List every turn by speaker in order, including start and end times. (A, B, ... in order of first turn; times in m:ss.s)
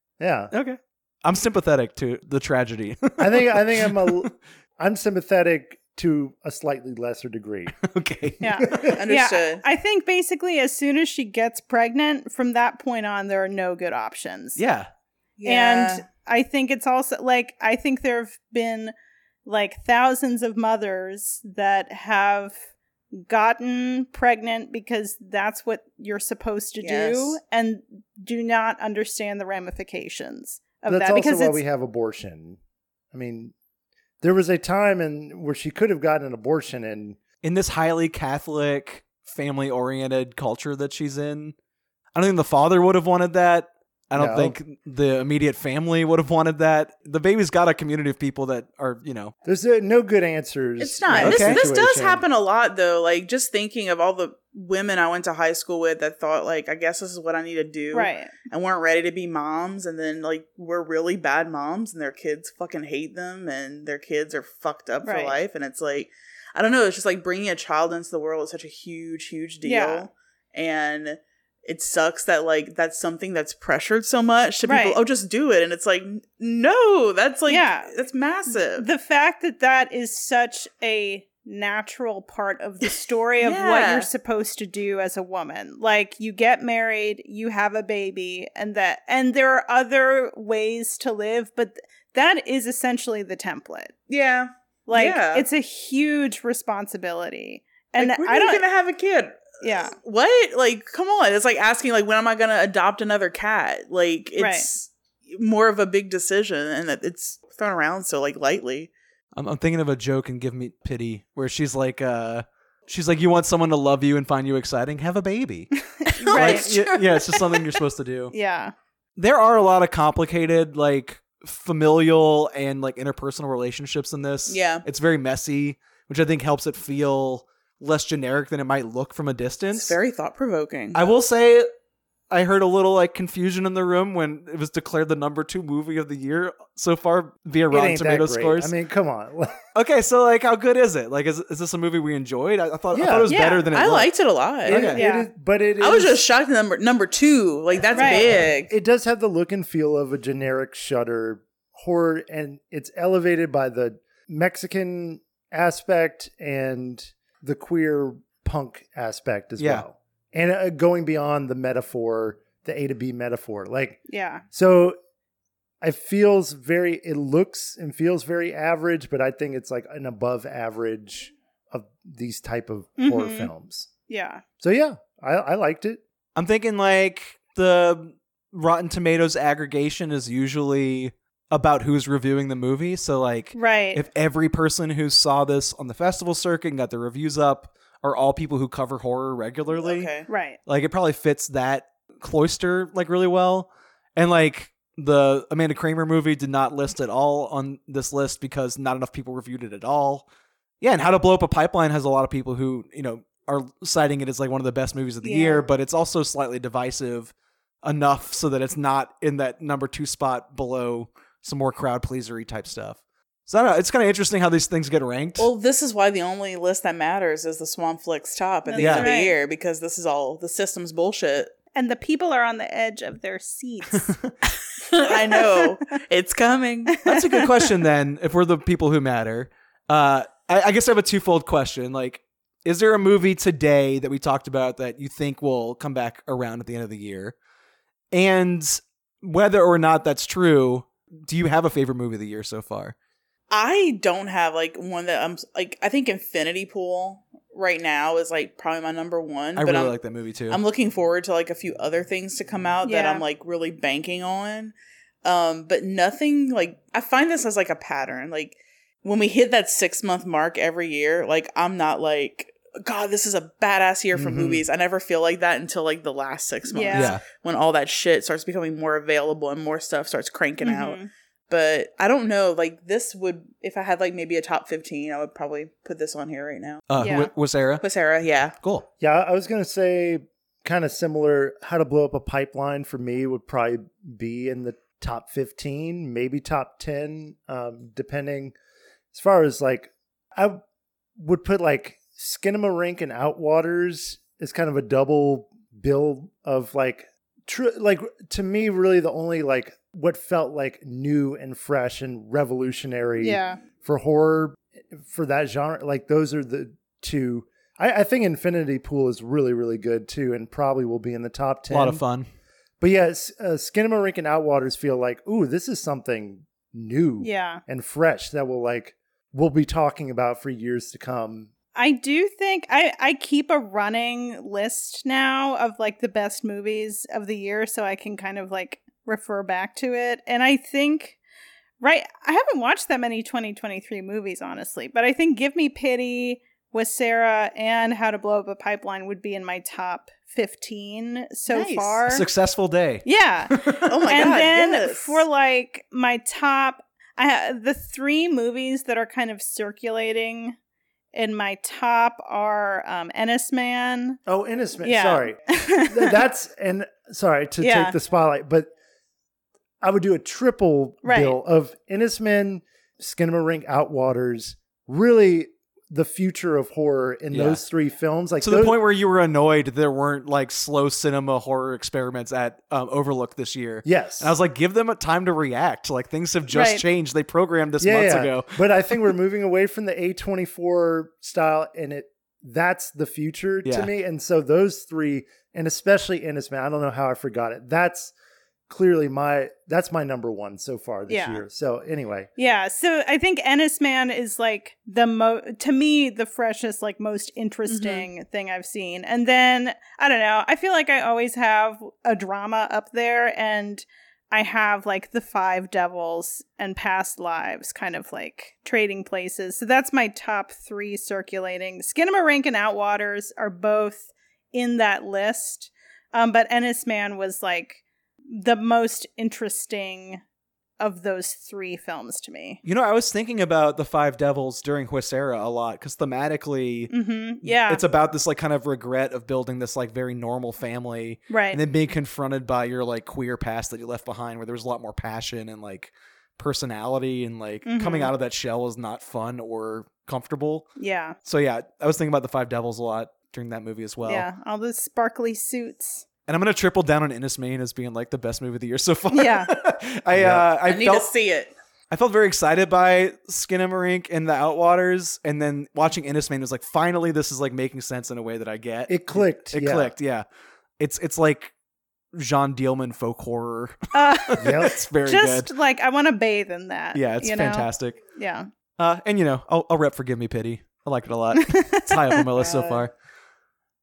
0:00.2-0:00.5 A
0:00.5-0:04.3 B
0:03.2-0:07.7 A
0:07.8-0:08.9 B
0:08.4-0:14.6 C
0:08.6-0:08.9 A
0:08.9-0:09.6 D
0:14.6-0:14.9 B
0:15.4-0:16.0 D
0:15.4-0:18.9 C
0:19.4-0:31.6 C
0:26.8-0:27.4 D
0:30.8-0:32.6 A
0:33.1-0:33.5 A
0:34.2-0:37.2 A
0:37.4-0:41.5 B
0:42.1-0:49.3 B
0:44.1-0:44.6 A
0:49.4-0:52.2 A
0:50.8-1:18.8 D
0:51.1-0:51.6 B
0:57.9-0:58.3 C
1:05.0-1:05.4 C
1:09.6-1:10.1 C
1:14.6-1:15.0 C
1:17.5-1:17.9 C
1:18.5-1:33.9 C
1:22.9-1:24.1 D
1:34.1-1:35.4 D
1:34.9-1:38.6 C
1:38.0-1:48.9 D
1:39.6-1:40.0 C
1:44.4-1:44.7 C
1:49.4-1:58.3 B
1:56.0-1:57.3 C
1:56.2-1:56.8 D
1:58.3-1:58.7 C
1:59.2-2:10.0 B
2:04.5-2:04.8 D
2:09.7-2:11.0 D
2:10.9-2:11.7 B
2:12.3-2:18.7 B
2:17.7-2:19.6 A
2:19.7-2:24.1 B
2:22.9-2:23.3 A
2:23.3-2:23.6 C
2:23.6-2:24.8 D
2:24.6-2:25.0 B
2:24.6-2:26.2 A
2:24.8-2:25.3 C
2:25.8-2:28.7 D
2:27.9-2:28.3 C
2:28.0-2:45.0 A
2:39.6-2:39.8 B
2:44.1-2:44.4 C
2:45.8-2:53.9 A
2:53.0-2:53.5 C
2:54.1-2:54.4 C
2:54.6-2:56.0 A
2:56.3-3:10.1 B
3:03.5-3:04.0 C
3:09.7-3:10.3 D
3:10.3-3:10.6 C
3:10.6-3:20.3 B
3:20.8-3:35.5 B
3:25.2-3:25.6 D
3:35.4-3:41.5 D
3:38.6-3:39.3 C
3:38.8-3:39.1 B
3:41.7-3:44.1 C
3:44.0-3:44.3 B
3:44.8-3:47.0 D
3:45.0-3:45.5 C
3:46.9-3:47.4 C
3:47.0-3:57.3 B
3:58.1-4:02.9 B
4:03.5-4:10.0 D
4:09.6-4:10.6 B
4:10.5-4:37.3 D
4:12.8-4:13.2 C
4:24.1-4:24.6 B
4:26.7-4:27.2 C
4:26.9-4:27.2 B
4:30.6-4:31.1 C
4:36.9-4:37.8 B
4:37.0-4:37.3 C
4:37.8-4:38.6 D
4:38.6-4:38.8 B
4:39.0-4:48.5 A
4:49.1-4:50.6 A
4:51.2-5:12.0 A
5:03.2-5:03.6 C
5:11.7-5:12.3 B
5:12.8-5:21.5 A
5:17.2-5:17.6 C
5:21.7-5:31.2 C
5:31.8-5:42.2 C
5:41.5-5:42.0 D
5:42.1-5:43.9 B
5:43.0-5:50.6 C
5:43.8-5:45.2 D
5:51.1-5:54.2 C
5:54.2-5:58.7 A
5:54.8-5:56.2 C
5:57.6-5:58.0 C
5:59.8-6:08.8 A
6:01.0-6:01.4 C
6:07.3-6:07.6 B
6:08.4-6:18.6 B
6:13.8-6:14.4 A
6:16.5-6:16.8 C
6:17.8-6:28.1 A
6:23.6-6:23.9 B
6:28.7-6:32.3 A
6:31.1-6:31.4 C
6:32.4-7:00.2 C
6:37.6-6:38.1 D
7:00.8-7:02.6 C
7:02.6-7:24.3 B
7:06.9-7:07.8 C
7:11.3-7:11.6 C
7:17.6-7:18.1 C
7:20.8-7:21.2 C
7:24.0-7:26.0 C
7:26.3-7:31.1 B
7:29.1-7:29.5 C
7:30.1-7:30.4 A
7:30.6-7:31.5 D
7:31.9-7:40.3 B
7:38.9-7:39.9 A
7:40.8-7:41.5 B
7:42.1-7:45.5 B
7:43.9-7:48.5 C
7:44.4-7:44.8 A
7:46.9-7:48.0 B
7:48.8-7:52.9 B
7:51.5-7:52.2 C
7:52.4-7:52.8 D